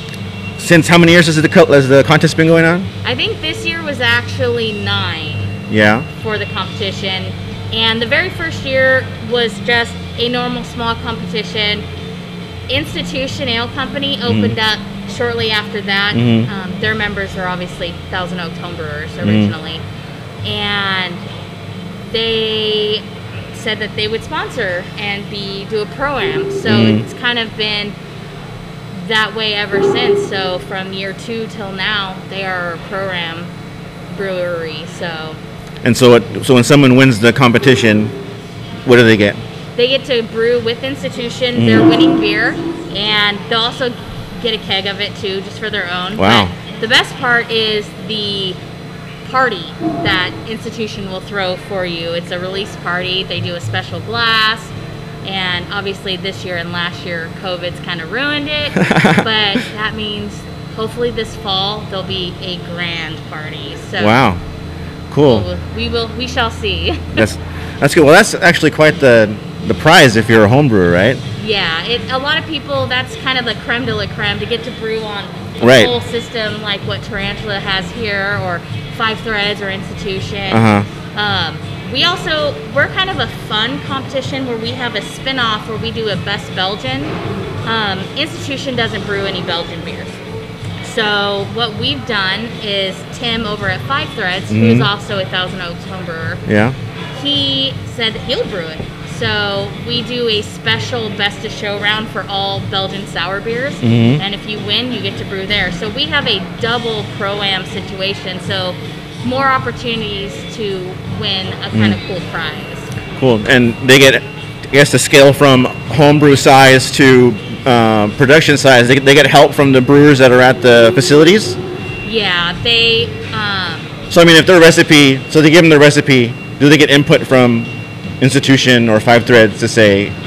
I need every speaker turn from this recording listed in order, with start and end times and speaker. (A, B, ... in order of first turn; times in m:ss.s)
0:00.6-0:02.9 A
0:03.0-0:05.5 B
0:05.7-0:06.1 A
0:06.1-0:11.8 B
0:12.7-0:19.8 B
0:14.3-0:14.5 A
0:16.1-0:16.5 A
0:19.2-0:19.5 A
0:20.4-0:21.2 B
0:22.0-0:28.0 B
0:26.7-0:27.0 A
0:28.9-0:33.5 B
0:34.1-0:35.4 B
0:35.8-0:38.2 A
0:38.8-0:39.4 A
0:39.8-0:48.6 B
0:41.6-0:41.9 A
0:46.2-0:46.5 A
0:49.2-1:04.2 B
0:58.8-0:59.2 A
1:04.0-1:04.4 A
1:05.1-1:05.5 A
1:05.2-1:07.2 B
1:07.2-1:11.2 A
1:11.4-1:30.2 B
1:15.6-1:15.9 A
1:20.5-1:20.9 A
1:30.8-1:36.4 B
1:34.5-1:34.9 A
1:36.5-1:36.8 A
1:37.1-1:52.9 B
1:43.8-1:44.2 A
1:51.7-1:52.0 A
1:53.2-2:01.6 A
2:02.0-2:03.9 B
2:04.1-2:10.2 A